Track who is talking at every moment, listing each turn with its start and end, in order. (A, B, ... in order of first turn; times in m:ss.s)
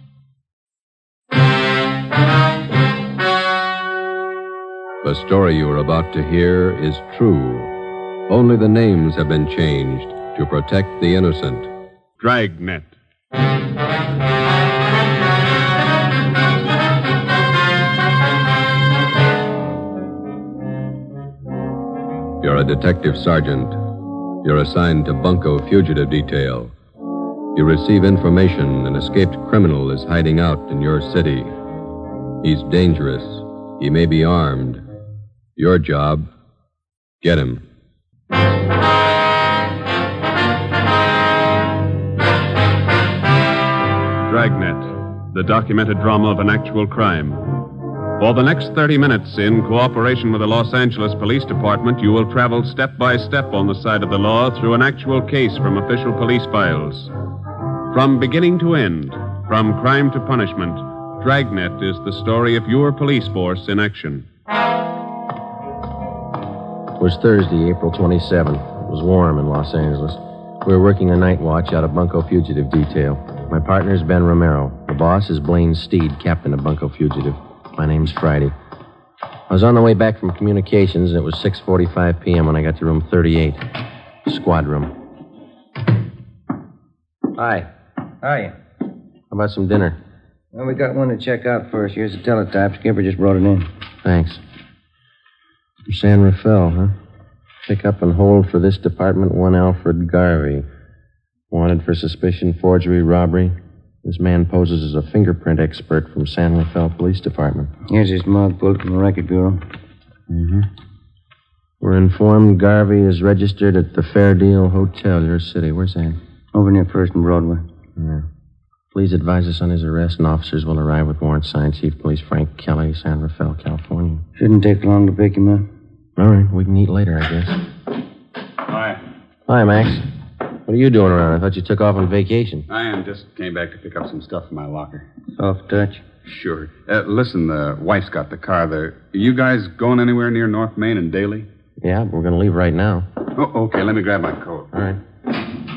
0:05.0-0:07.7 A
0:08.3-0:11.7 A
0:12.2-0:12.9 B
0:22.4-0:23.9 A
0:24.4-0:26.7 A
0:27.5-0:31.5 A
0:32.4-0:34.8 A
0:35.6-0:36.3 A
0:37.2-0:37.6 A
0:44.2-0:47.6 B
0:48.2-0:57.1 B
0:57.9-1:04.2 B
1:07.0-1:18.5 C
1:19.5-1:23.7 C
1:24.2-1:24.9 C
1:27.3-1:27.7 C
1:28.2-1:28.5 D
1:29.3-1:30.0 C
1:30.5-1:33.7 D
1:34.0-1:34.4 C
1:35.9-1:36.9 C
1:37.7-1:40.7 C
1:41.5-1:47.7 C
1:47.9-1:49.6 D
1:50.3-1:50.7 C
1:51.8-1:56.2 C
1:56.5-1:57.6 D
1:58.0-1:58.3 C
1:58.9-2:04.2 C
2:04.4-2:05.7 D
2:06.2-2:07.6 C
2:08.7-2:09.0 E
2:09.5-2:10.1 C
2:10.7-2:12.6 C
2:12.7-2:15.1 E
2:15.4-2:16.0 D
2:16.2-2:21.5 E
2:21.8-2:23.1 C
2:23.3-2:24.7 E
2:24.7-2:25.0 C